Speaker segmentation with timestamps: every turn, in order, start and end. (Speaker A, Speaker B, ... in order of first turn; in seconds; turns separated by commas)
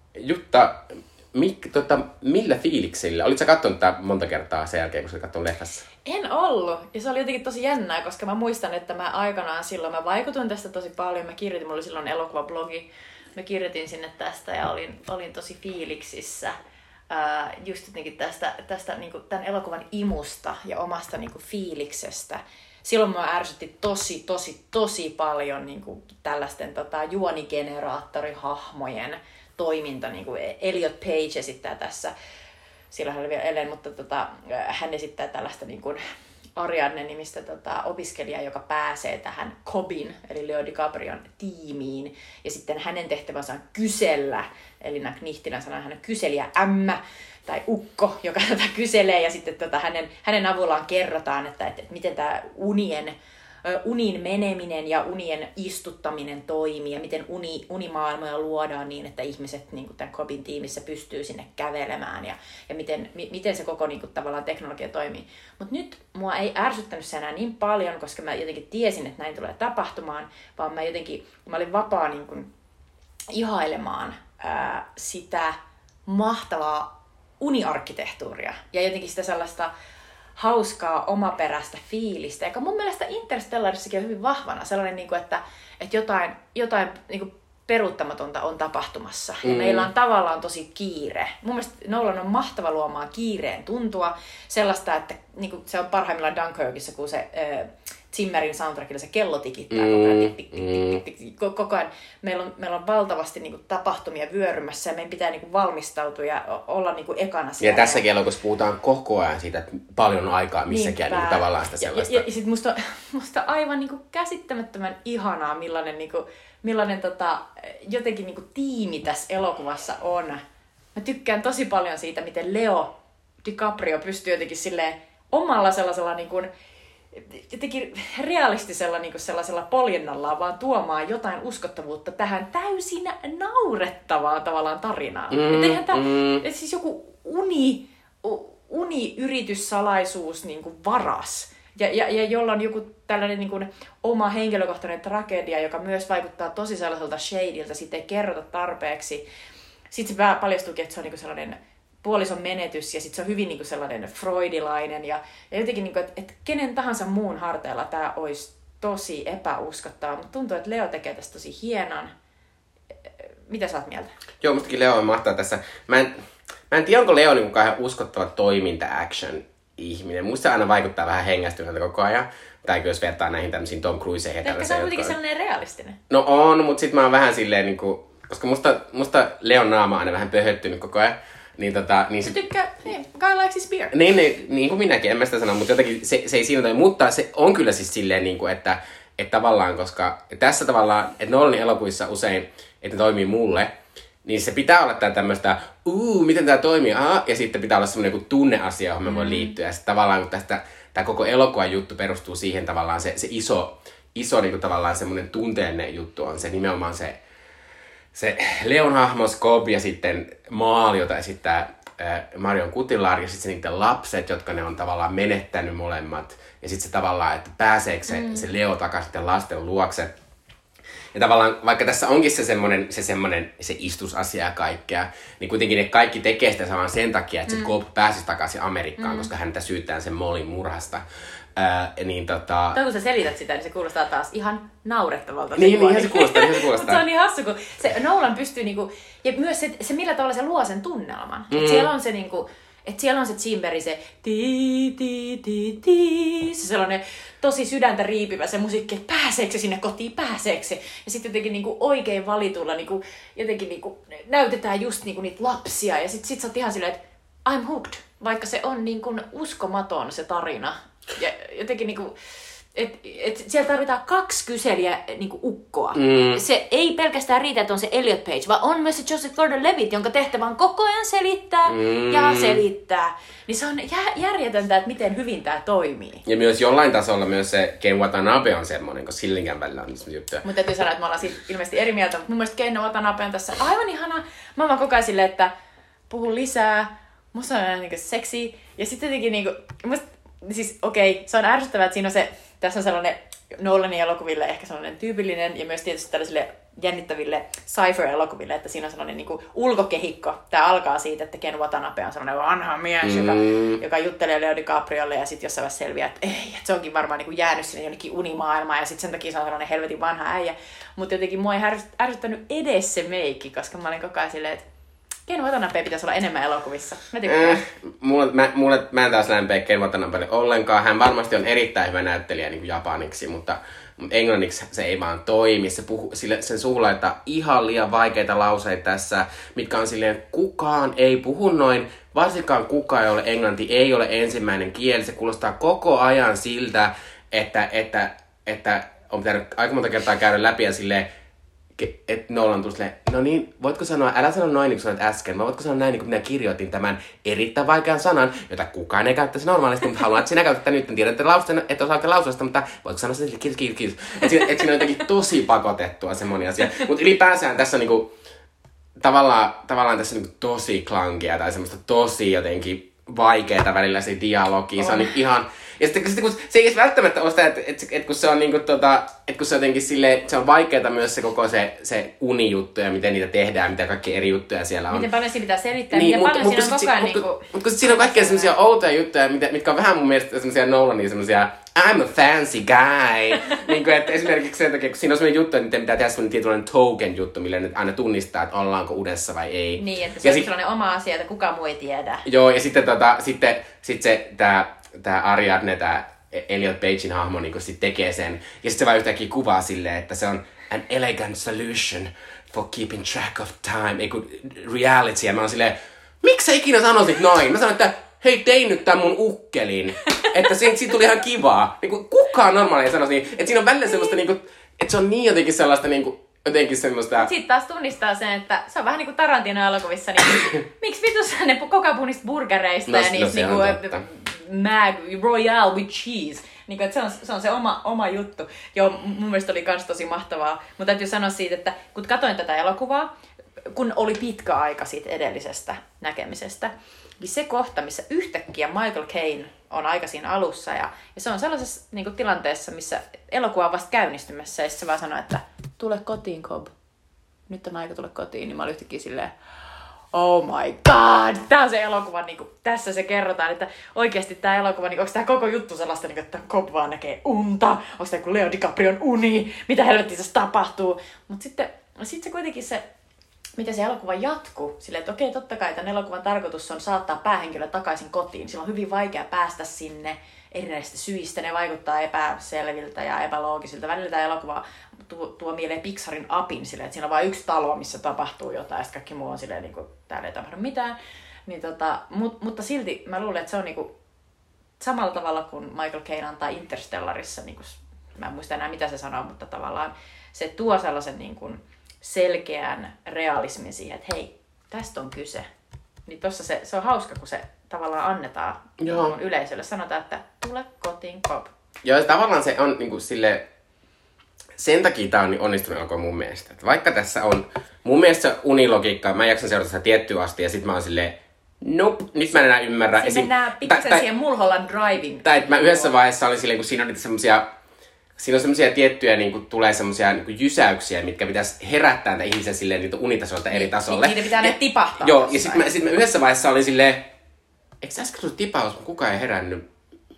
Speaker A: 0.1-5.8, Speaker B: 6.0-16.5, Speaker B: 17.1-32.1, Speaker B: 32.9-36.0, Speaker B: 36.6-72.5, Speaker B: 73.3-79.7, Speaker B: 80.3-108.0, Speaker A: 89.4-89.9, Speaker A: 99.7-101.0, Speaker A: 107.6-112.2, Speaker B: 110.7-120.4, Speaker B: 120.9-122.9, Speaker B: 123.4-126.5, Speaker B: 127.1-149.2, Speaker A: 135.3-136.4, Speaker B: 149.9-162.1, Speaker B: 163.5-164.1, Speaker A: 164.4-166.1, Speaker A: 166.7-175.1, Speaker B: 174.4-176.0, Speaker A: 176.1-182.4, Speaker B: 182.2-183.9, Speaker A: 183.9-207.2, Speaker B: 199.1-199.5, Speaker A: 208.1-220.2, Speaker B: 218.1-218.5, Speaker A: 221.1-231.0, Speaker B: 227.5-227.7, Speaker B: 229.0-229.3, Speaker A: 231.5-232.8, Speaker B: 232.7-262.1, Speaker A: 235.6-237.0, Speaker A: 241.5-241.9, Speaker B: 262.7-276.2, Speaker A: 265.9-266.4, Speaker A: 271.7-272.6, Speaker A: 276.2-280.4, Speaker B: 280.4-285.5, Speaker B: 286.1-314.6, Speaker A: 303.0-303.8, Speaker B: 315.3-317.6, Speaker A: 317.2-341.1, Speaker A: 341.8-358.1, Speaker A: 359.0-375.1, Speaker B: 374.9-378.5, Speaker A: 375.9-390.5, Speaker B: 389.8-392.2, Speaker A: 392.2-417.3, Speaker B: 417.1-433.1, Speaker A: 422.9-424.0, Speaker B: 433.7-446.7, Speaker B: 447.5-449.3, Speaker B: 450.1-462.8, Speaker B: 463.6-480.9, Speaker B: 481.5-483.9, Speaker B: 484.8-495.4, Speaker B: 496.1-501.5, Speaker A: 498.8-499.1, Speaker A: 501.8-503.4, Speaker A: 504.6-514.0, Speaker B: 512.9-515.9, Speaker A: 515.2-517.5, Speaker A: 518.2-527.1, Speaker B: 523.5-525.6, Speaker A: 527.8-529.6